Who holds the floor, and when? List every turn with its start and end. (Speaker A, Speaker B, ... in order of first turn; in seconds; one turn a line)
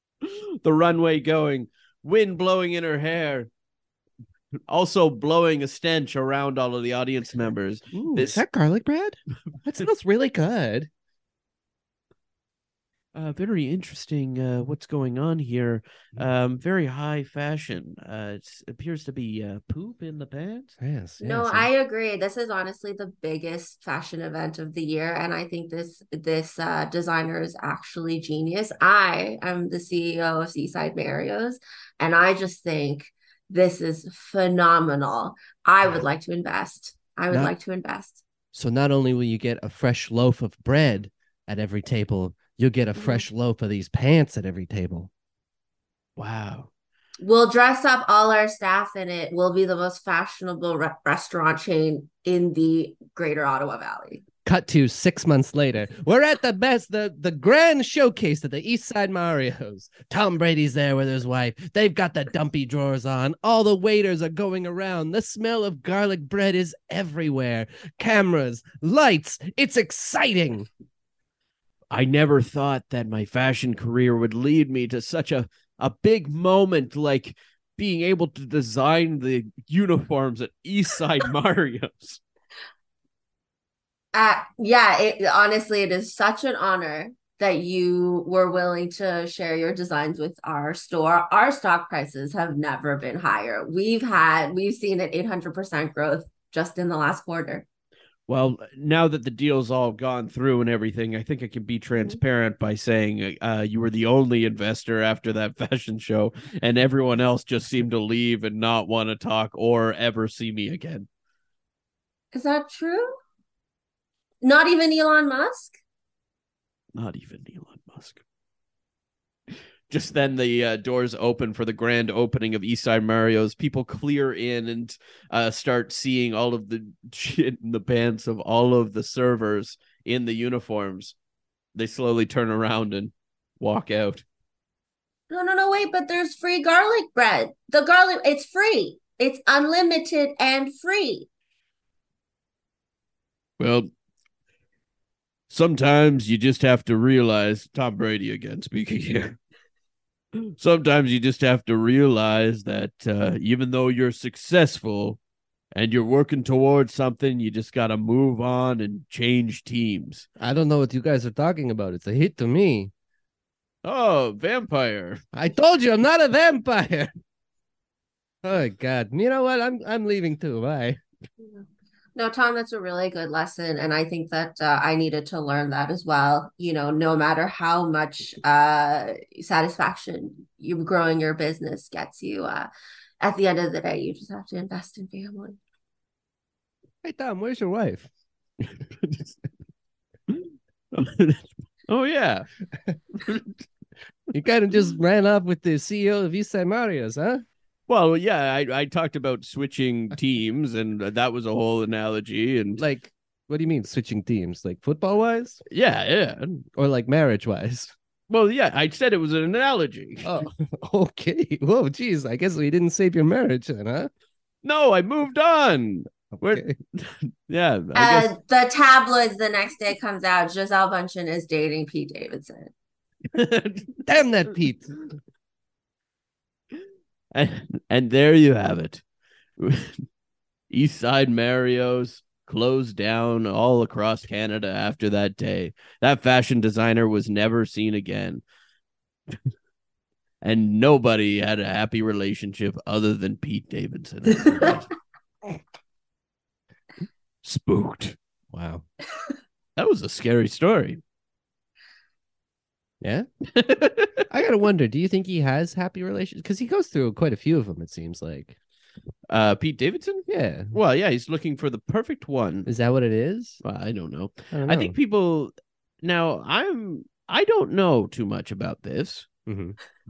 Speaker A: 0.2-3.5
Speaker A: 4.7-8.4
Speaker B: 7.9-10.9
Speaker A: 13.1-20.7
Speaker B: 20.8-21.7
Speaker C: 21.2-38.2
Speaker B: 38.5-45.1
Speaker C: 43.0-43.2
Speaker A: 46.2-46.7
Speaker C: 47.2-54.2
Speaker B: 54.4-70.7
Speaker A: 71.9-82.2
Speaker C: 84.1-97.7
Speaker A: 98.3-111.1
Speaker C: 112.3-113.1
Speaker C: 114.4-115.8
Speaker A: 116.9-118.2
Speaker A: 119.5-131.1
Speaker A: 131.7-134.2
Speaker C: 135.3-141.3
Speaker A: 143.6-143.9
Speaker A: 145.5-149.4
Speaker A: 150.4-155.2
Speaker A: 155.7-160.2
Speaker B: 160.4-162.9
Speaker A: 163.8-165.2
Speaker B: 165.3-167.1
Speaker B: 168.4-171.0
Speaker C: 172.1-182.7
Speaker C: 183.2-185.6
Speaker B: 187.0-188.1
Speaker A: 188.6-189.4
Speaker A: 190.3-192.5
Speaker A: 193.2-193.5
Speaker B: 194.3-197.4
Speaker A: 197.9-202.8
Speaker B: 202.8-205.6
Speaker A: 205.7-206.6
Speaker B: 206.7-207.9
Speaker A: 208.3-210.4
Speaker B: 210.2-214.1
Speaker A: 214.6-218.3
Speaker B: 216.4-216.7
Speaker C: 217.9-222.7
Speaker A: 223.3-224.1
Speaker B: 224.1-224.9
Speaker A: 227.3-229.0
Speaker A: 229.6-230.0
Speaker A: 230.7-238.4
Speaker A: 240.4-244.9
Speaker A: 247.4-248.2
Speaker B: 248.5-248.8
Speaker A: 249.8-251.0
Speaker B: 253.0-253.3
Speaker A: 253.5-254.2
Speaker B: 254.3-258.5
Speaker A: 259.3-262.7
Speaker B: 260.3-260.7
Speaker B: 262.6-263.6
Speaker A: 263.6-269.3
Speaker B: 264.5-264.9
Speaker B: 269.5-269.8